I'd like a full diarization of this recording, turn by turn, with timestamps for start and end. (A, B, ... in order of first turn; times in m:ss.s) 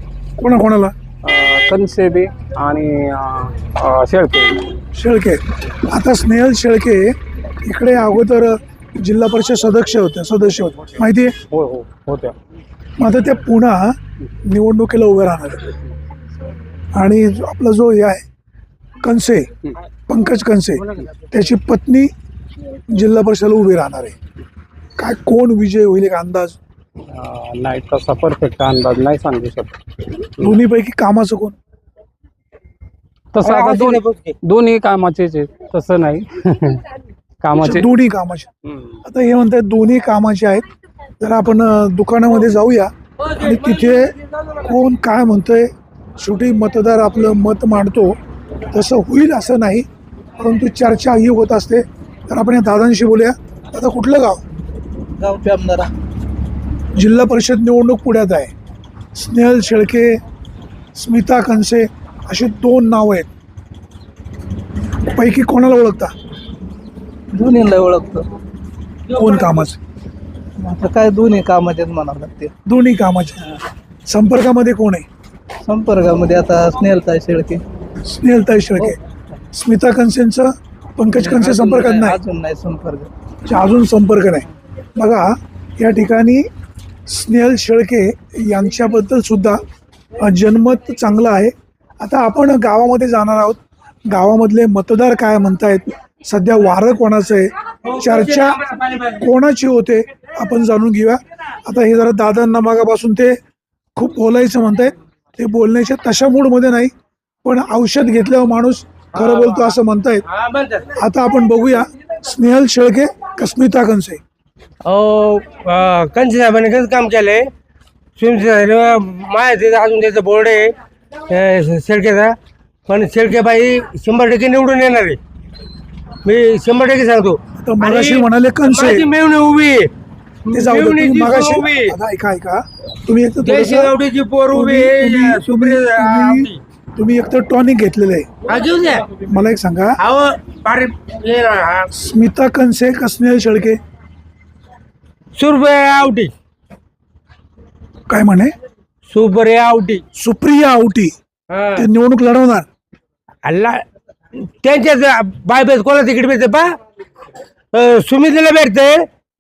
0:00.4-0:00.9 A
0:01.2-0:04.7 B
0:04.9-0:11.3 A
0:11.5-0:12.3 B
0:13.0-0:15.7 A
0:16.9-0:18.2 A
0:19.0-0:19.5 A
0:20.1-0:22.1 A
0:22.9-0:24.2 A
0:25.0-0:26.6 A
0:27.1-0:29.7 B
0:30.4-0:31.6 A
0:33.3-0:36.8 B
0:33.4-0:34.4 C
0:37.4-0:37.9 B
0:37.6-0:38.5 A
0:39.0-0:40.6 A
0:41.2-0:48.2 A
0:48.7-0:49.9 A
0:50.4-0:54.4 A
0:55.2-0:55.9 D
0:56.9-0:58.5 A
0:59.1-1:00.2 A
1:00.9-1:03.3 A
1:05.1-1:06.1 A
1:07.3-1:08.3 D
1:09.1-1:09.8 A
1:10.6-1:12.5 D
1:12.6-1:15.0 A
1:15.6-1:17.6 D
1:18.0-1:19.0 A
1:19.5-1:22.2 A
1:21.1-1:23.1 D
1:23.4-1:26.5 A
1:27.1-1:29.6 A
1:30.2-1:43.4 A
1:43.9-1:46.9 A
1:47.4-1:50.2 A
1:49.2-1:49.6 C
1:50.3-1:50.9 C
1:51.0-1:54.2 A
1:54.8-1:57.5 C
1:58.2-2:00.8 C
2:01.3-2:05.2 C
2:06.2-2:09.9 C
2:07.6-2:09.1 A
2:10.5-2:11.9 C
2:10.5-2:13.9 A
2:13.4-2:16.6 C
2:14.5-2:18.3 A
2:18.5-2:19.2 C
2:19.2-2:20.0 A
2:20.0-2:21.9 C
2:21.9-2:23.8 A
2:25.3-2:26.3 C
2:28.1-2:28.5 A
2:29.1-2:30.0 C
2:30.2-2:31.1 A
2:31.5-2:31.9 C
2:31.8-2:32.7 A
2:33.4-2:33.8 C
2:34.4-2:36.8 C
2:37.7-2:39.1 C